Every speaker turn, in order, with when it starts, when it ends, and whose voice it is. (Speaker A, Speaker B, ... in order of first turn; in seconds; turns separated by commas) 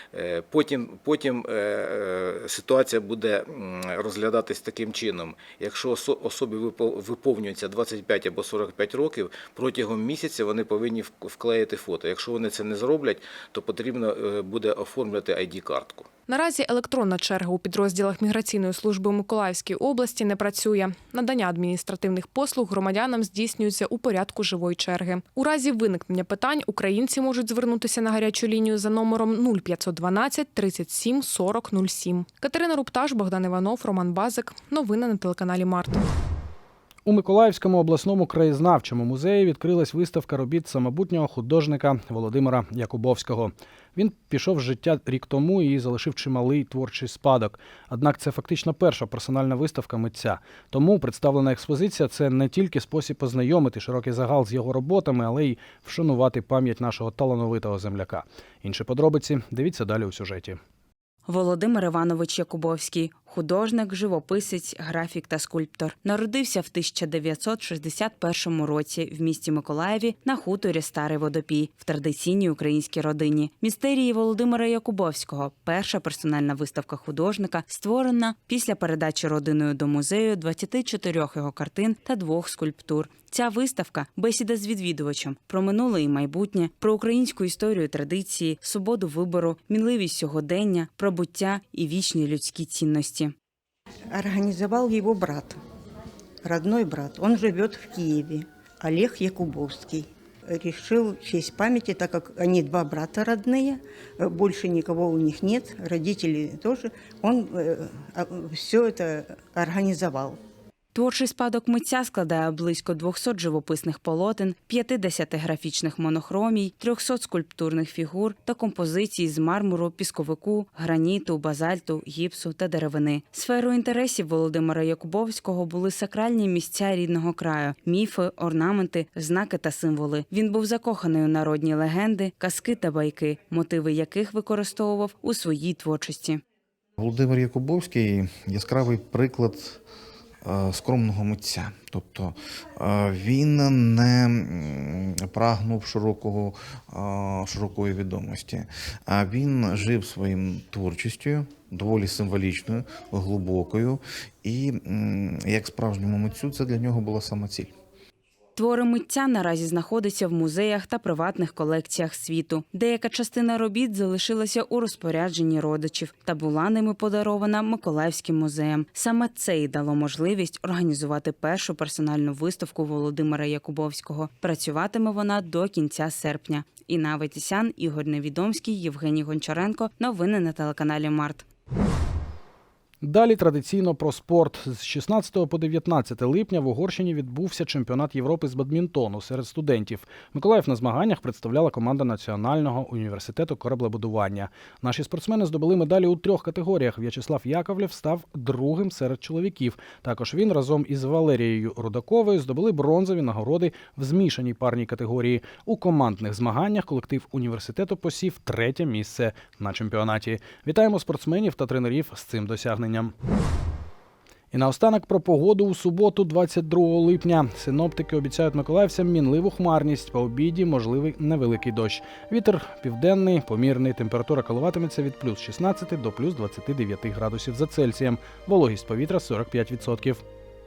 Speaker A: 0.2-16.0, Speaker B: 16.3-36.1, Speaker C: 37.1-60.6, Speaker D: 61.3-93.3, Speaker E: 94.1-95.6, Speaker E: 96.4-110.4, Speaker D: 110.9-136.4, Speaker F: 137.0-139.8, Speaker F: 140.4-157.7, Speaker D: 158.6-181.4, Speaker C: 183.0-213.1, Speaker C: 214.5-230.2